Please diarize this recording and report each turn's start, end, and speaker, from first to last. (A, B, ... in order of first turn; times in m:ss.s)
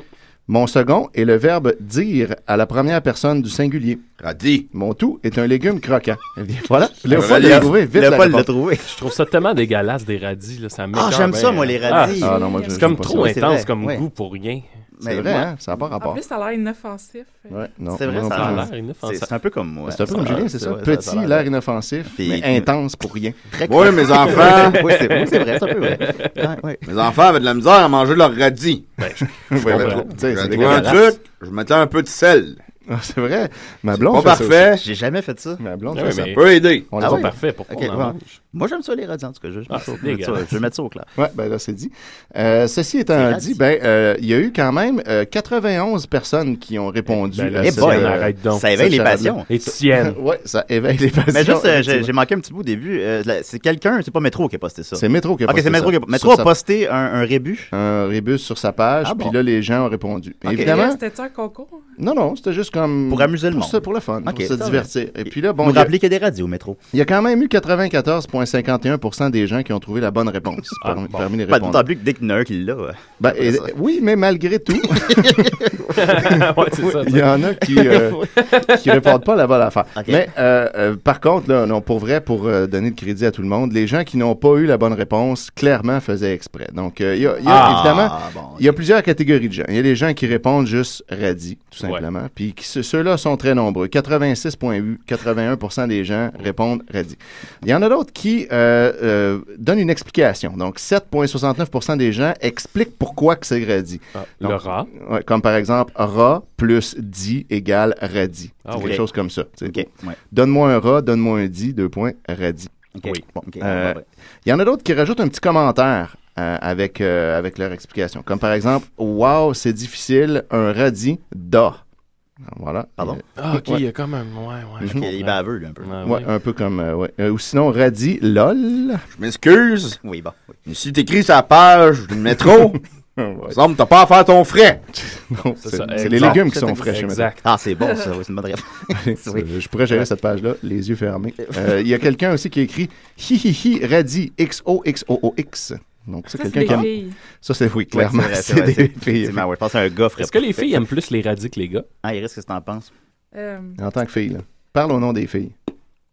0:00.5-0:04.0 A
0:04.2-0:04.7 B
0:04.7-0:08.5 A
0:07.1-0:07.7 B
0:07.1-0:08.9 C
0:08.9-0:14.7 D
0:10.9-0:14.0 C
0:11.8-0:12.9 E
0:12.2-0:13.4 A
0:15.0-0:15.5 C
0:15.0-0:16.2 A
0:16.0-0:17.5 E
0:17.5-0:18.7 A
0:17.9-0:21.5 C
0:18.1-0:19.3 D
0:19.9-0:23.4 A
0:22.1-0:22.7 C
0:23.5-0:26.8 C
0:23.7-0:24.9 B
0:24.3-0:26.3 D
0:26.8-0:28.9 B
0:29.0-0:30.1 D
0:29.2-0:31.1 A
0:29.7-0:32.6 B
0:29.7-0:31.0 C
0:32.9-0:34.8 A
0:33.9-0:34.8 B
0:34.8-0:35.6 C
0:35.6-0:37.3 A
0:35.9-0:36.4 D
0:36.3-0:36.9 B
0:37.0-0:38.4 D
0:37.0-0:41.1 C
0:39.7-0:40.5 D
0:41.2-0:52.1 A
0:43.1-0:43.6 C
0:47.1-0:48.6 D
0:47.6-0:49.5 C
0:49.5-0:50.2 D
0:51.3-0:57.7 C
0:55.0-0:56.5 A
0:57.7-1:01.0 A
0:59.0-0:59.3 C
1:00.4-1:00.8 C
1:00.5-1:01.8 E
1:02.0-1:05.9 A
1:03.1-1:06.8 C
1:06.9-1:11.9 A
1:10.8-1:11.4 D
1:11.5-1:13.7 C
1:13.2-1:52.7 A
1:14.8-1:16.4 C
1:15.9-1:19.1 D
1:17.8-1:18.2 C
1:20.0-1:20.2 C
1:27.4-1:28.0 D
1:27.5-1:28.7 C
1:44.1-1:44.9 D
1:48.6-1:49.0 D
1:48.8-1:49.0 C
1:49.6-1:50.2 C
1:53.0-1:54.0 C
1:53.6-2:01.8 A
2:02.4-2:03.8 A
2:03.4-2:06.3 D
2:04.8-2:06.0 C
2:06.0-2:09.0 A
2:09.1-2:10.0 B
2:10.0-2:10.5 C
2:10.6-2:12.8 B
2:12.6-2:13.6 A
2:13.5-2:14.8 B
2:14.9-2:17.3 A
2:15.6-2:17.4 D
2:15.9-2:20.0 C
2:18.9-2:29.4 A
2:26.3-2:27.2 E
2:26.6-2:26.9 C
2:27.9-2:30.8 C
2:30.2-2:31.9 D
2:32.0-2:32.9 C
2:33.3-2:33.8 E
2:33.8-2:35.5 A